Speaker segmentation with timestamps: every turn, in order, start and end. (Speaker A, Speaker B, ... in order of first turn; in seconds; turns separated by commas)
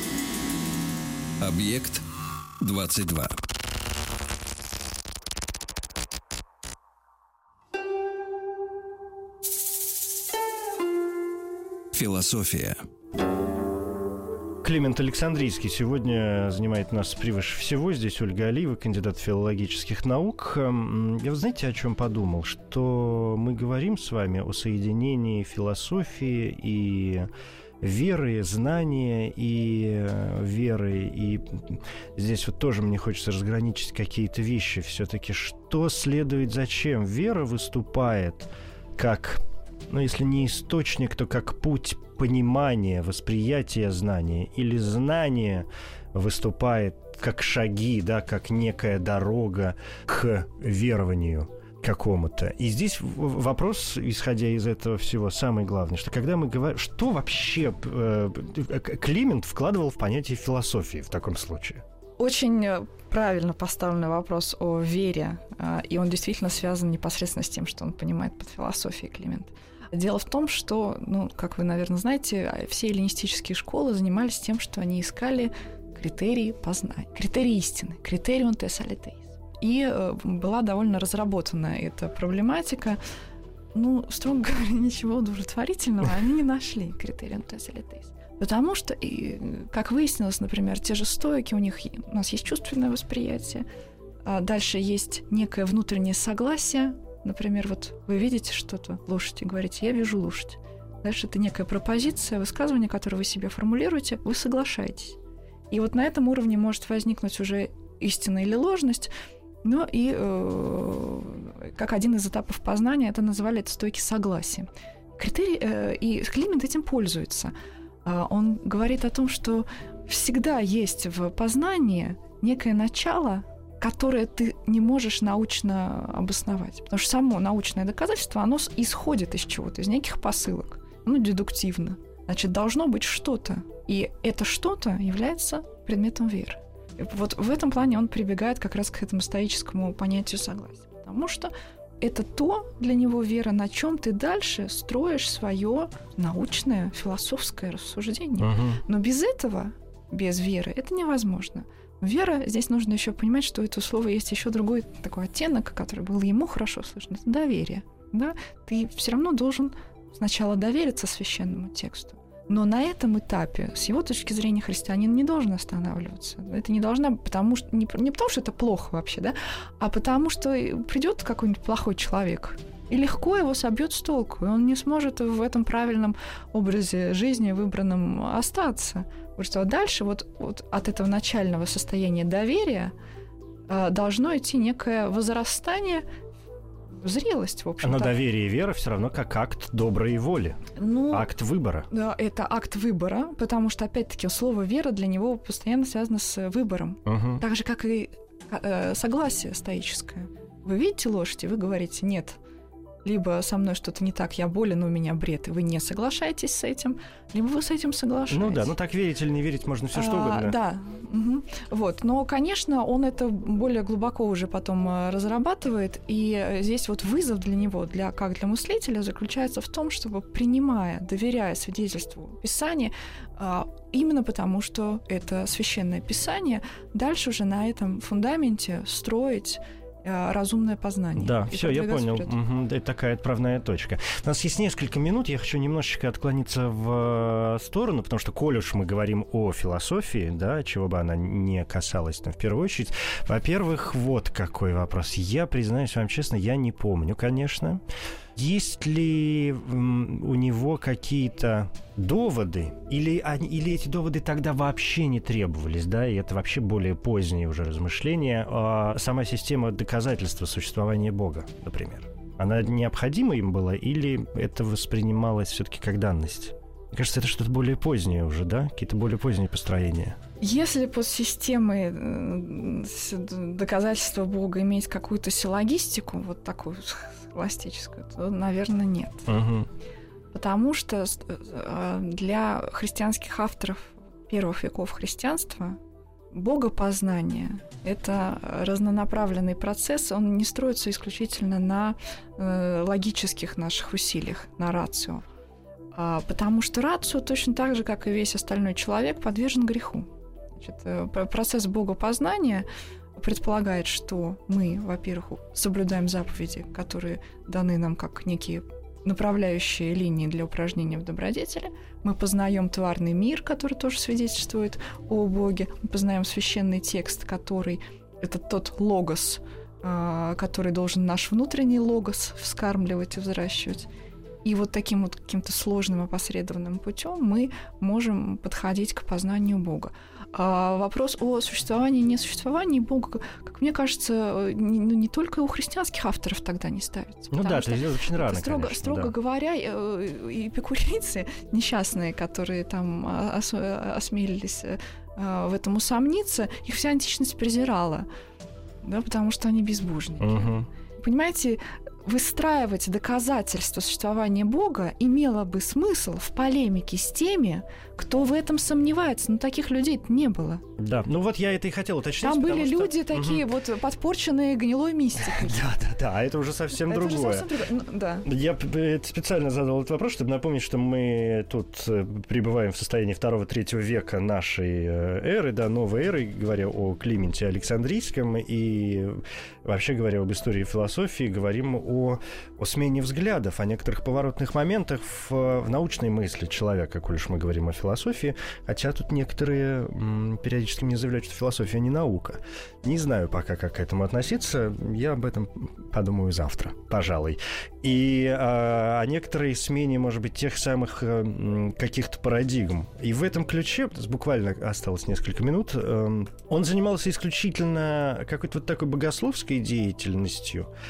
Speaker A: 1.4-2.0, Speaker A: 2.6-3.4, Speaker A: 11.9-12.8, Speaker B: 14.6-27.3, Speaker B: 27.8-61.8, Speaker C: 62.2-83.0, Speaker C: 83.7-93.7, Speaker C: 94.2-105.2, Speaker C: 105.7-109.1, Speaker C: 109.6-117.5, Speaker C: 118.0-182.9, Speaker B: 148.4-148.8, Speaker C: 183.7-186.1, Speaker C: 186.9-188.2, Speaker B: 187.8-191.9, Speaker C: 190.8-191.3, Speaker C: 191.9-202.4, Speaker B: 197.1-197.4, Speaker C: 203.0-208.7, Speaker B: 208.3-210.6, Speaker C: 209.9-232.4, Speaker B: 231.2-247.8, Speaker B: 248.3-270.2, Speaker C: 270.4-279.3, Speaker B: 279.3-279.7, Speaker C: 280.3-285.8, Speaker C: 286.3-295.2, Speaker C: 295.9-323.9, Speaker C: 324.4-348.1, Speaker B: 337.3-339.1, Speaker C: 348.8-360.6, Speaker B: 350.2-350.7, Speaker B: 360.8-363.5, Speaker C: 362.2-365.6, Speaker B: 365.2-367.5, Speaker C: 366.8-368.3, Speaker B: 368.2-410.7